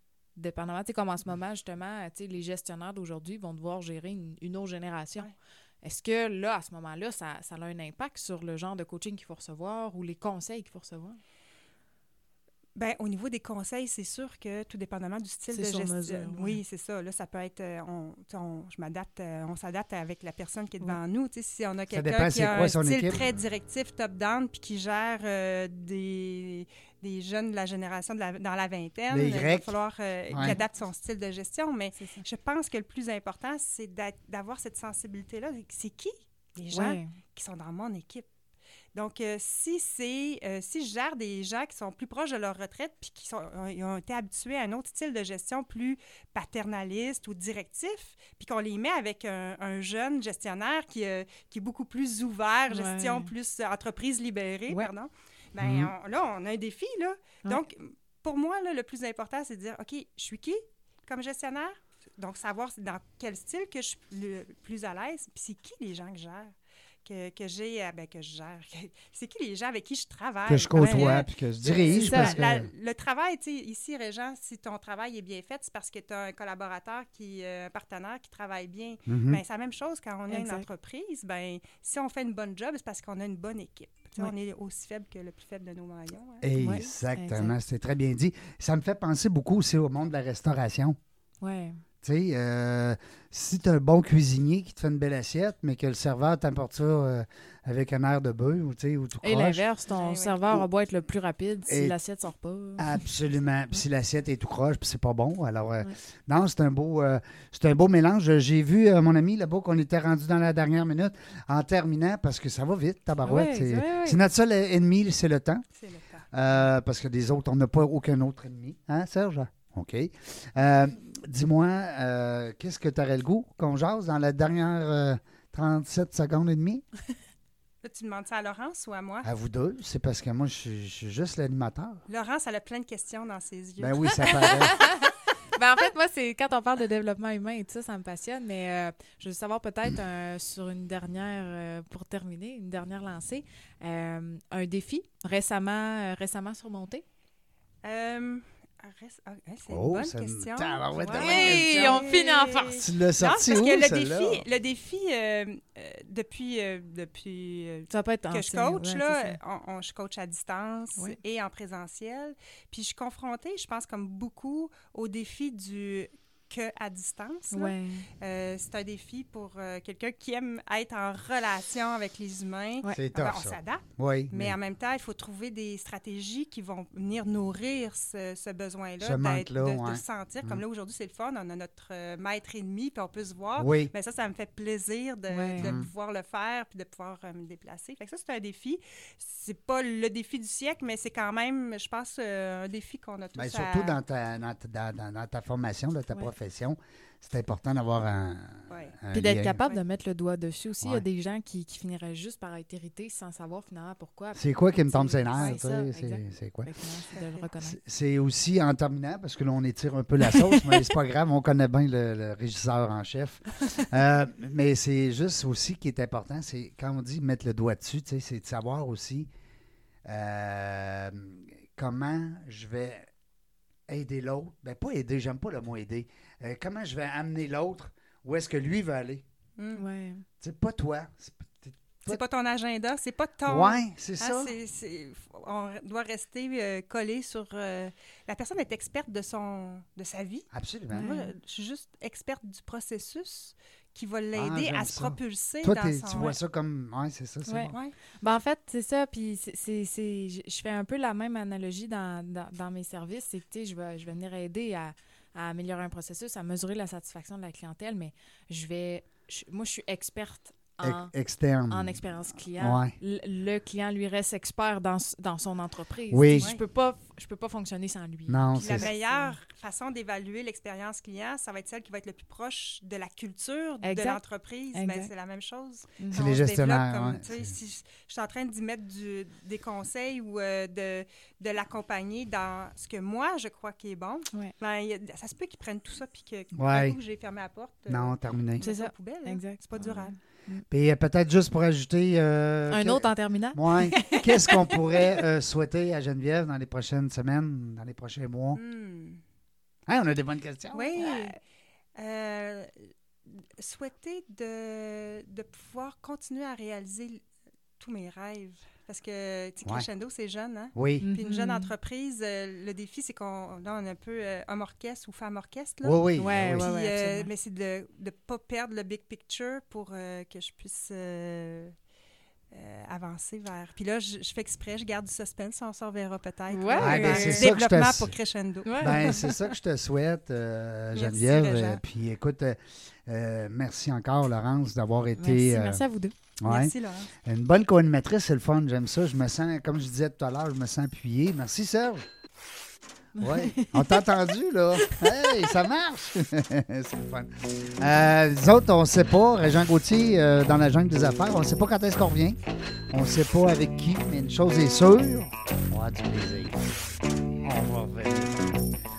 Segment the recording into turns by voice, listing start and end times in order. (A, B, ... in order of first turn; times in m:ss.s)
0:00.4-0:05.3 A
0:05.8-0:11.2 A
0:12.8-0:38.3 B
0:15.5-0:16.6 A
0:21.9-0:23.2 C
0:29.1-0:29.7 C
0:30.3-0:30.6 C
0:32.0-0:32.2 A
0:36.7-0:37.1 A
0:38.9-1:06.5 B
0:52.7-0:53.3 A
0:55.6-0:55.9 C
1:07.0-1:26.9 B
1:10.5-1:12.7 C
1:10.8-1:11.2 A
1:11.9-1:12.4 A
1:19.1-1:19.4 C
1:20.3-1:20.6 A
1:26.4-1:31.0 C
1:26.6-1:27.5 A
1:31.4-1:31.8 A
1:32.0-1:39.6 C
1:39.2-1:43.1 A
1:39.9-1:40.4 B
1:41.7-1:41.9 C
1:42.8-1:55.6 C
1:53.2-1:54.2 A
1:55.7-1:56.6 B
1:56.3-2:06.8 C
2:07.8-2:09.3 B
2:09.2-2:12.0 C
2:12.1-2:14.5 B
2:13.8-2:14.8 C
2:14.3-2:27.0 A
2:27.8-3:14.0 B
2:29.7-2:32.1 C
2:31.1-2:32.8 A
2:32.8-2:34.4 C
2:37.9-2:39.4 A
2:47.5-2:48.1 A
2:53.0-2:54.6 C
2:59.0-3:00.6 C
3:03.6-3:03.9 C
3:05.3-3:05.7 A
3:05.6-3:05.9 C
3:13.3-3:19.6 C
3:18.7-3:19.0 B
3:19.1-3:27.8 A
3:24.4-3:26.7 C
3:27.6-3:39.3 C
3:30.2-3:30.8 A
3:40.0-3:43.1 C
3:43.9-3:49.2 C
3:49.6-3:49.8 B
3:49.7-3:50.2 A
3:50.4-3:52.2 C
3:52.0-4:06.4 B
3:53.5-3:54.6 C
4:00.5-4:01.1 C
4:00.9-4:01.3 A
4:04.3-4:07.8 C
4:07.4-4:21.1 A
4:20.8-4:22.9 C
4:21.7-4:29.4 A
4:26.1-4:26.5 C
4:28.3-4:28.9 C
4:28.6-4:50.1 B
4:33.8-4:34.2 A
4:34.7-4:35.1 A
4:36.0-4:36.2 A
4:36.1-4:37.6 C
4:46.5-4:47.0 C
4:47.9-4:48.6 C
4:48.6-4:50.6 A
4:50.7-4:58.6 C
4:52.7-4:54.2 A
4:54.0-4:54.4 B
4:58.5-4:59.2 B
4:59.9-5:01.3 C
5:00.7-5:01.4 B
5:02.0-5:07.2 B
5:07.8-5:21.7 B
5:10.7-5:11.1 C
5:11.0-5:11.7 A
5:15.8-5:16.7 C
5:16.2-5:17.3 A
5:22.5-5:29.3 B
5:26.5-5:27.5 A
5:26.8-5:28.1 C
5:28.6-5:29.4 A
5:28.8-5:35.8 C
5:30.9-5:31.8 B
5:35.2-5:36.1 A
5:36.4-5:42.0 C
5:36.4-5:37.1 B
5:43.2-5:44.2 A
5:43.2-5:52.4 C
5:44.8-5:45.5 A
5:52.9-5:56.6 C
5:57.4-5:58.6 C